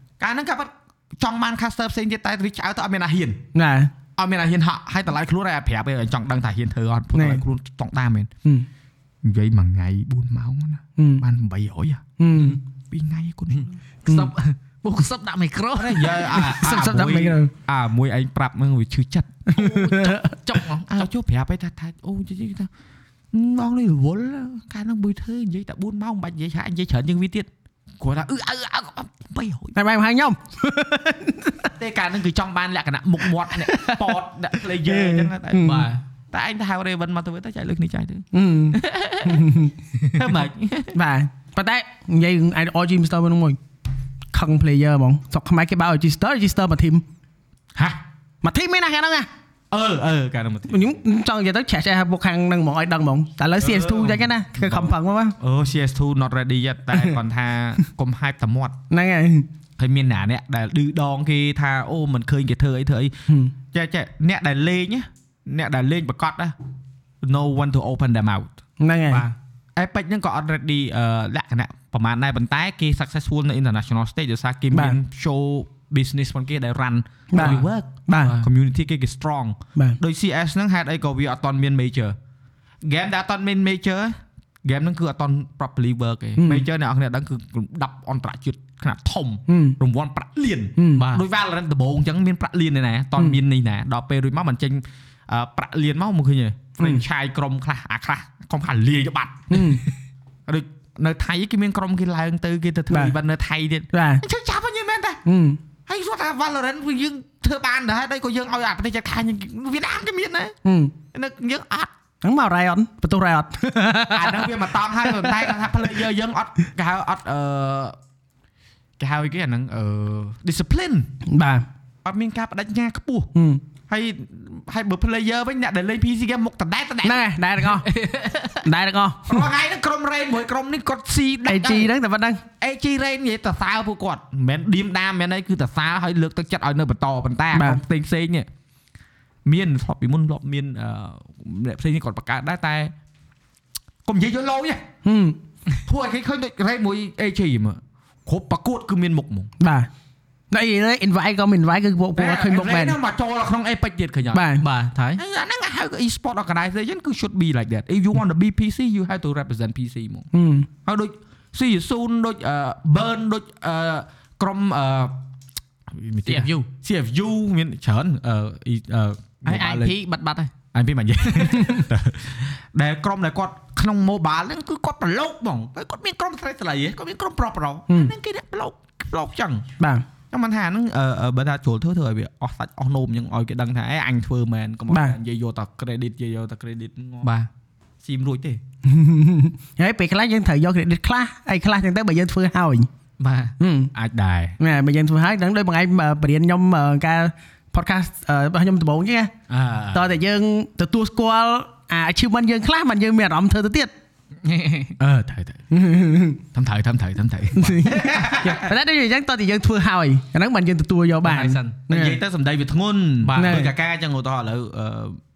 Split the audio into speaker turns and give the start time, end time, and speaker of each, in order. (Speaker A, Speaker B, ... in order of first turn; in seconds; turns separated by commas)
Speaker A: 0.2-3.4, Speaker B: 3.5-3.9, Speaker A: 4.2-8.3, Speaker B: 7.1-7.4, Speaker A: 9.2-13.8, Speaker B: 11.0-11.2, Speaker B: 12.2-12.6, Speaker C: 13.6-16.4, Speaker A: 15.7-19.5, Speaker B: 16.3-17.5, Speaker C: 19.5-21.1, Speaker B: 19.5-20.3, Speaker A: 20.9-22.7, Speaker A: 23.3-29.8, Speaker B: 29.7-31.7, Speaker A: 31.8-41.0, Speaker B: 33.5-35.9, Speaker C: 35.6-36.0, Speaker B: 38.3-39.7, Speaker B: 40.9-43.6, Speaker B: 44.3-47.0, Speaker A: 47.7-48.0, Speaker B: 48.4-49.3, Speaker A: 49.7-50.9, Speaker B: 50.7-55.4, Speaker A: 53.6-58.7, Speaker B: 58.9-59.5, Speaker A: 59.8-63.1, Speaker A: 63.7-66.5, Speaker A: 67.2-68.6, Speaker B: 68.8-69.2, Speaker C: 69.1-69.3, Speaker A: 69.8-82.2, Speaker B: 74.7-75.0, Speaker B: 77.3-78.4, Speaker C: 77.3-78.4, Speaker A: 82.8-99.9, Speaker B: 86.4-86.7, Speaker B: 89.5-89.8, Speaker B: 90.8-91.1, Speaker C: 90.9-91.2, Speaker B: 99.5-99.8, Speaker A: 100.5-105.2, Speaker B: 103.9-104.2, Speaker B: 105.2-105.6, Speaker A: 105.9-110.5, Speaker B: 110.6-110.9, Speaker A: 111.1-111.9, Speaker B: 112.2-115.5, Speaker A: 114.1-118.0, Speaker A: 119.0-121.1, Speaker B: 121.3-121.7, Speaker A: 122.0-123.3, Speaker B: 123.3-123.6, Speaker A: 123.9-127.3, Speaker B: 127.0-127.9, Speaker C: 127.7-128.7, Speaker B: 128.6-129.5, Speaker A: 129.2-131.9, Speaker B: 131.5-132.4, Speaker A: 132.6-138.5, Speaker B: 137.5-137.8, Speaker A: 139.4-142.9, Speaker A: 144.0-144.8, Speaker B: 145.0-145.4, Speaker A: 145.8-149.5, Speaker B: 149.6-149.9, Speaker B: 150.5-153.0, Speaker A: 152.1-154.5, Speaker B: 154.3-154.6, Speaker C: 154.6-155.2, Speaker A: 155.2-160.3, Speaker B: 160.3-160.7, Speaker A: 160.8-165.2, Speaker A: 165.9-169.9, Speaker C: 166.2-166.7, Speaker C: 169.4-170.5, Speaker A: 170.7-179.7, Speaker B: 171.6-171.8, Speaker B: 177.9-178.1, Speaker B: 179.8-180.0, Speaker A: 180.3-187.3, Speaker B: 184.9-185.2, Speaker C: 187.2-187.5, Speaker A: 188.0-188.6, Speaker B: 188.8-192.9, Speaker C: 193.2-193.5, Speaker B: 193.6-193.9, Speaker A: 193.9-194.6, Speaker B: 194.6-199.3, Speaker A: 199.5-200.2, Speaker B: 199.9-203.9, Speaker C: 204.4-205.0, Speaker A: 205.0-205.6, Speaker B: 205.7-206.4, Speaker A: 206.5-208.7, Speaker B: 207.5-212.2, Speaker C: 211.2-211.8, Speaker A: 211.9-215.2, Speaker C: 213.2-213.6, Speaker B: 213.3-213.7